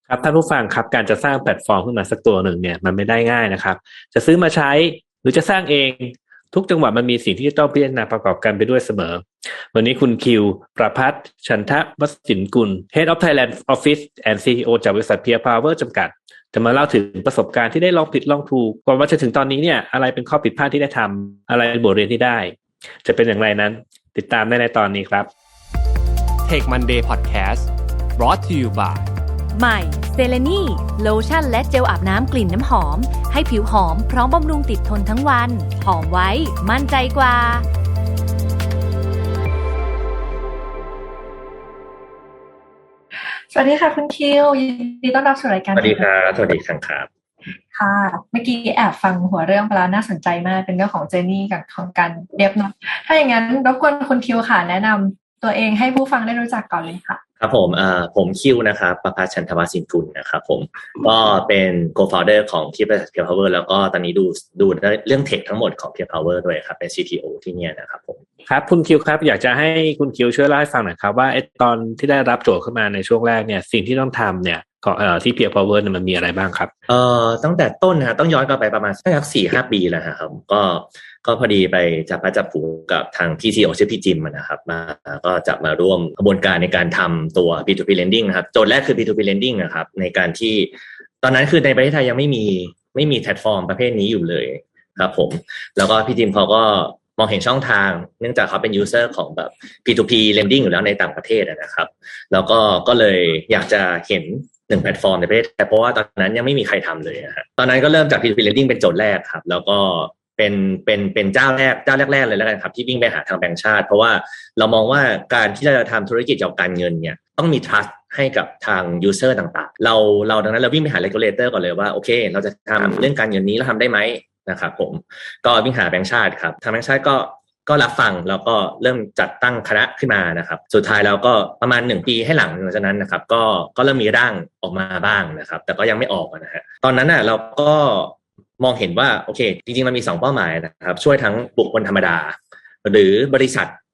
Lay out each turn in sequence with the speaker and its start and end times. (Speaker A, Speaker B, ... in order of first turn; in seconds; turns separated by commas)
Speaker A: 0.1-25.3, Speaker B: 26.4-29.1, Speaker C: 29.5-37.6, Speaker D: 43.5-46.1, Speaker E: 45.7-47.1, Speaker D: 47.7-57.2, Speaker E: 57.4-68.2, Speaker A: 68.5-76.7, Speaker E: 76.9-143.8